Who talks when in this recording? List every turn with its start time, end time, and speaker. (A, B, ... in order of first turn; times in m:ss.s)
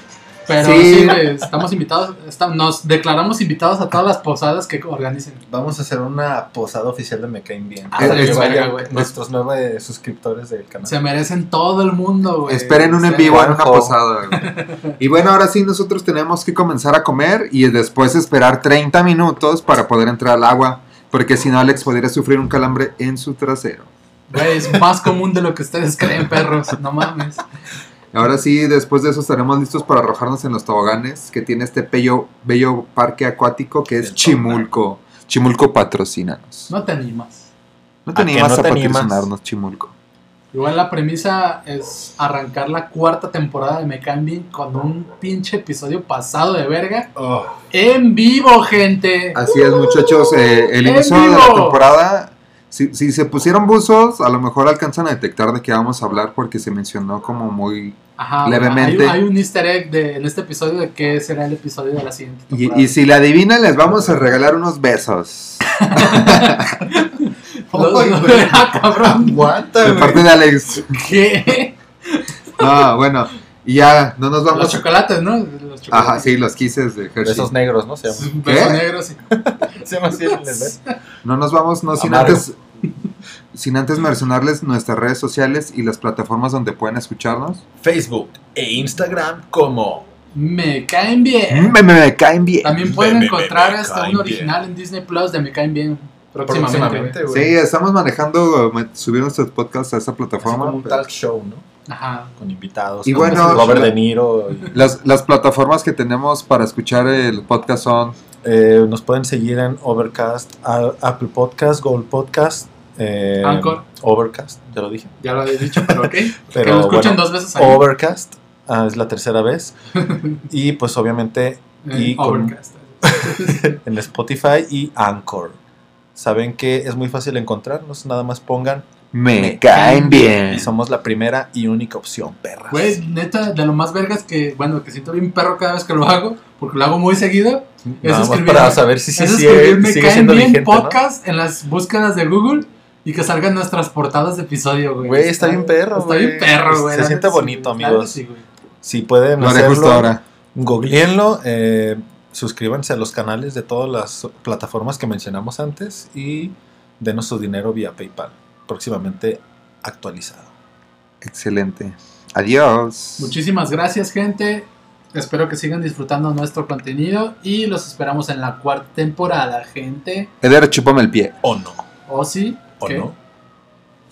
0:00.5-0:05.4 A
0:00.5-0:01.3 B
0:05.5-0:11.0 C
0:07.9-0:09.1 A
0:08.0-0:09.0 B
0:10.8-0:13.4 A
0:12.5-0:23.9 B
0:13.2-0:14.0 C
0:14.3-0:15.0 A
0:24.3-0:27.4 A
0:28.1-0:36.7 B
0:34.0-0:34.7 C
0:36.7-0:37.5 A
0:38.1-0:39.9 B
0:38.1-0:39.3 C
0:40.5-0:47.1 A
0:47.2-0:47.6 C
0:47.7-0:49.4 A
0:49.4-0:59.2 B
0:50.8-0:51.8 A
0:58.2-1:02.9 A
1:02.5-1:06.8 B
1:05.7-1:09.5 A
1:07.7-1:10.3 C
1:09.8-1:11.0 B
1:10.8-1:12.7 A
1:12.6-1:14.8 B
1:14.5-1:16.4 A
1:15.9-1:17.5 B
1:17.2-1:18.4 C
1:18.1-1:19.2 A
1:18.4-1:18.8 B
1:19.3-1:20.8 C
1:19.8-1:20.9 A
1:21.2-1:22.6 B
1:21.9-1:22.5 C
1:23.5-1:27.6 B
1:27.8-1:30.1 C
1:30.4-1:31.8 A
1:31.5-1:32.8 B
1:32.6-1:37.2 A
1:32.8-1:34.6 C
1:36.4-1:37.6 C
1:37.3-1:41.0 B
1:40.4-1:41.6 C
1:41.9-1:42.3 A
1:42.4-1:44.8 C
1:43.0-1:44.0 B
1:43.2-1:43.9 A
1:44.7-1:48.2 B
1:48.4-1:59.8 C
1:53.4-1:53.8 A
1:55.2-1:57.9 A
2:00.0-2:00.4 A
2:00.4-2:05.6 C
2:01.8-2:03.8 A
2:06.2-2:09.6 C
2:09.1-2:10.7 B
2:09.7-2:10.3 A
2:10.4-2:13.0 C
2:12.7-2:28.4 A
2:17.8-2:21.0 C
2:25.0-2:28.2 C
2:28.8-2:40.5 C
2:29.4-2:30.2 B
2:41.2-2:43.4 B
2:43.2-2:50.3 A
2:50.4-2:51.4 B
2:51.4-2:51.9 C
2:52.1-2:53.1 A
2:52.8-2:53.2 C